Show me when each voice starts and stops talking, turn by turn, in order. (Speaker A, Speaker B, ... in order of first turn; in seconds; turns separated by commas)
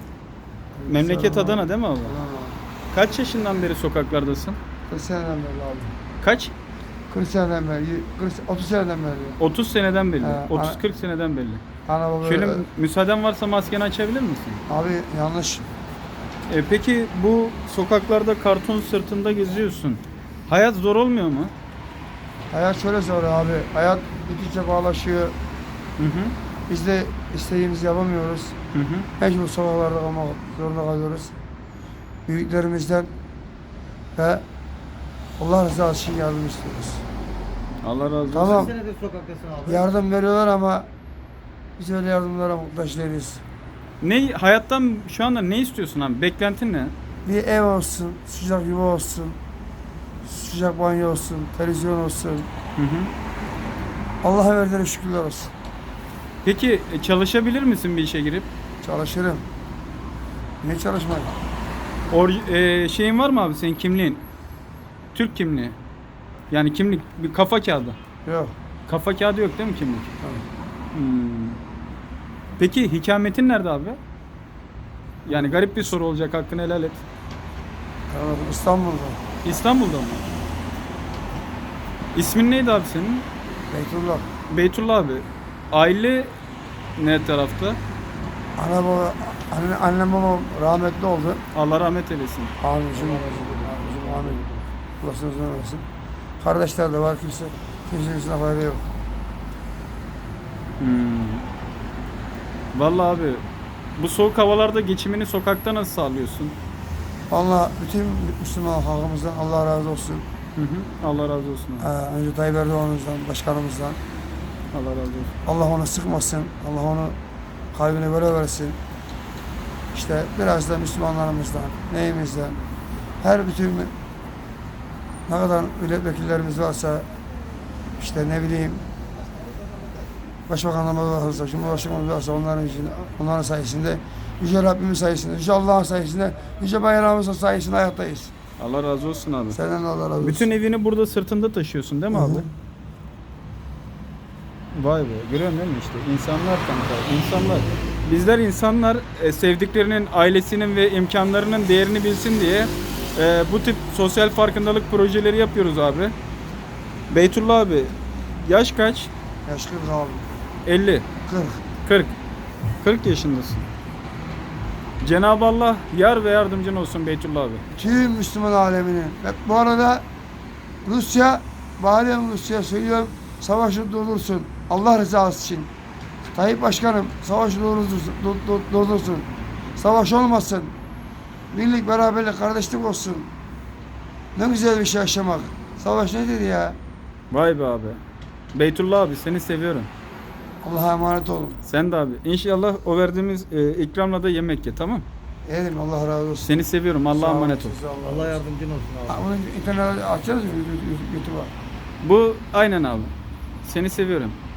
Speaker A: 0.7-2.6, Speaker B: 0.9-2.1, Speaker B: 2.9-4.6, Speaker A: 4.9-5.9, Speaker B: 6.2-6.5, Speaker A: 7.1-9.4, Speaker B: 9.4-11.6, Speaker A: 10.2-10.8, Speaker A: 11.8-12.7, Speaker B: 12.2-14.6, Speaker A: 14.7-15.7, Speaker B: 16.5-21.5, Speaker A: 22.5-25.3, Speaker B: 26.0-26.3, Speaker A: 26.7-28.5, Speaker B: 28.7-29.1, Speaker A: 29.2-31.4, Speaker A: 32.3-33.1, Speaker A: 34.1-34.4, Speaker A: 35.4-37.0, Speaker B: 37.8-38.7, Speaker A: 38.3-38.7, Speaker C: 38.4-39.9, Speaker A: 39.6-40.9, Speaker A: 41.8-43.4, Speaker B: 44.0-46.9, Speaker A: 47.2-49.4, Speaker A: 50.2-52.5, Speaker B: 52.8-53.1, Speaker A: 54.2-55.5, Speaker B: 56.4-58.5, Speaker A: 58.8-59.4, Speaker A: 60.6-61.3, Speaker B: 62.1-64.2, Speaker B: 65.1-65.8, Speaker B: 66.5-68.0, Speaker A: 68.2-68.5, Speaker B: 68.9-70.1, Speaker B: 70.9-71.6, Speaker B: 72.6-74.0, Speaker B: 75.2-77.0, Speaker A: 75.3-75.9, Speaker A: 78.1-79.2, Speaker B: 79.4-80.2, Speaker B: 82.1-83.3, Speaker A: 83.7-84.3, Speaker B: 84.5-86.3, Speaker B: 87.0-87.8, Speaker A: 88.6-91.4, Speaker B: 91.5-92.5, Speaker A: 92.6-95.8, Speaker C: 92.9-94.3, Speaker A: 96.4-98.9, Speaker B: 100.8-101.5, Speaker B: 102.7-103.4, Speaker B: 104.0-106.6, Speaker A: 107.3-110.2, Speaker B: 110.5-111.9, Speaker A: 111.8-114.0, Speaker B: 114.7-115.3, Speaker A: 115.5-117.2, Speaker A: 117.7-118.8, Speaker A: 119.9-122.6, Speaker A: 123.2-123.9, Speaker A: 125.3-127.1, Speaker A: 128.0-128.8, Speaker A: 130.5-138.3, Speaker B: 138.6-139.6, Speaker A: 139.5-140.5, Speaker B: 140.2-142.4, Speaker A: 142.1-142.5, Speaker B: 144.7-156.1, Speaker B: 157.1-159.1, Speaker A: 159.4-160.2, Speaker B: 160.7-161.1, Speaker A: 161.2-161.6, Speaker B: 161.8-162.2, Speaker B: 162.8-163.7, Speaker B: 165.0-167.6, Speaker A: 167.7-170.1, Speaker A: 170.8-175.7, Speaker A: 176.3-180.7, Speaker A: 181.5-183.3, Speaker A: 184.3-186.8, Speaker B: 187.3-188.0, Speaker B: 188.5-189.9, Speaker A: 190.6-191.6, Speaker B: 191.6-195.1, Speaker A: 195.4-198.4, Speaker B: 196.4-197.8, Speaker C: 198.0-199.2, Speaker A: 199.1-201.5, Speaker B: 202.0-204.3